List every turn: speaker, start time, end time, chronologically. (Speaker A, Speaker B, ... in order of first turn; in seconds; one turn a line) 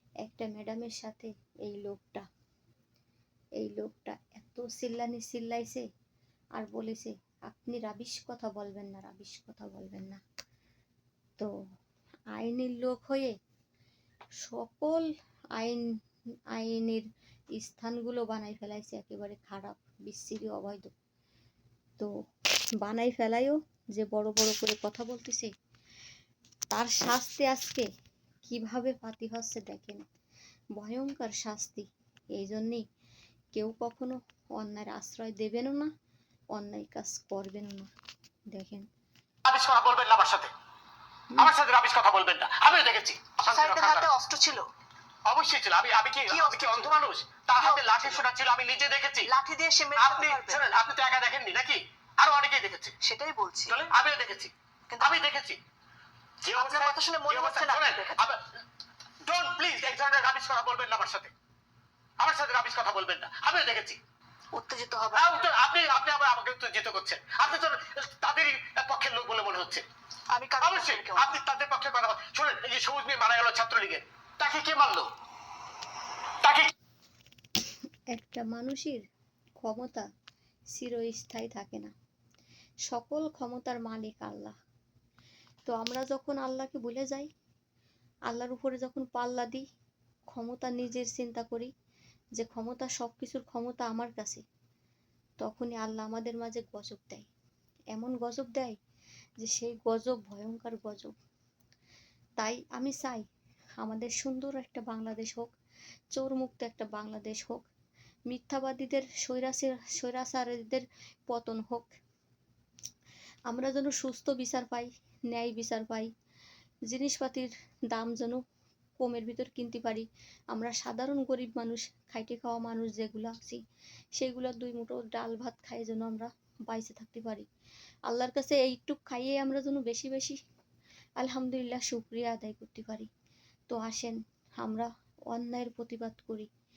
Speaker A: 0.2-2.3
Speaker A: 3.6-5.8
Speaker A: 6.5-10.2
Speaker A: 12.3-13.3
Speaker A: 14.4-15.8
Speaker A: 16.5-20.9
Speaker A: 22.8-25.5
Speaker A: 26.7-27.9
Speaker A: 28.4-30.1
Speaker A: 30.8-32.8
Speaker A: 33.5-35.9
Speaker A: 36.5-37.9
Speaker A: 38.5-38.9
Speaker B: 39.5-40.5
Speaker B: 41.4-44.1
Speaker C: 43.4-44.7
Speaker B: 45.3-49.3
Speaker C: 46.3-46.9
Speaker C: 47.6-48.2
Speaker C: 49.2-50.6
Speaker B: 50.0-52.9
Speaker C: 53.0-53.9
Speaker B: 53.7-55.6
Speaker C: 54.9-55.2
Speaker B: 56.4-58.4
Speaker C: 56.5-58.3
Speaker B: 59.2-61.3
Speaker B: 62.2-64.0
Speaker C: 64.5-65.4
Speaker B: 65.1-69.8
Speaker C: 70.3-71.3
Speaker B: 70.6-75.1
Speaker B: 76.4-76.7
Speaker A: 78.1-79.0
Speaker A: 79.6-80.0
Speaker A: 80.7-81.9
Speaker A: 82.9-84.5
Speaker A: 85.7-87.3
Speaker A: 88.3-89.6
Speaker A: 90.3-91.7
Speaker A: 92.3-94.4
Speaker A: 95.4-97.3
Speaker A: 97.9-98.7
Speaker A: 99.4-101.1
Speaker A: 102.4-103.2
Speaker A: 103.8-105.5
Speaker A: 106.1-107.7
Speaker A: 108.3-111.9
Speaker A: 113.5-116.1
Speaker A: 116.9-118.4
Speaker A: 119.0-123.6
Speaker A: 124.2-127.5
Speaker A: 128.1-130.4
Speaker A: 131.2-133.1
Speaker A: 133.7-136.5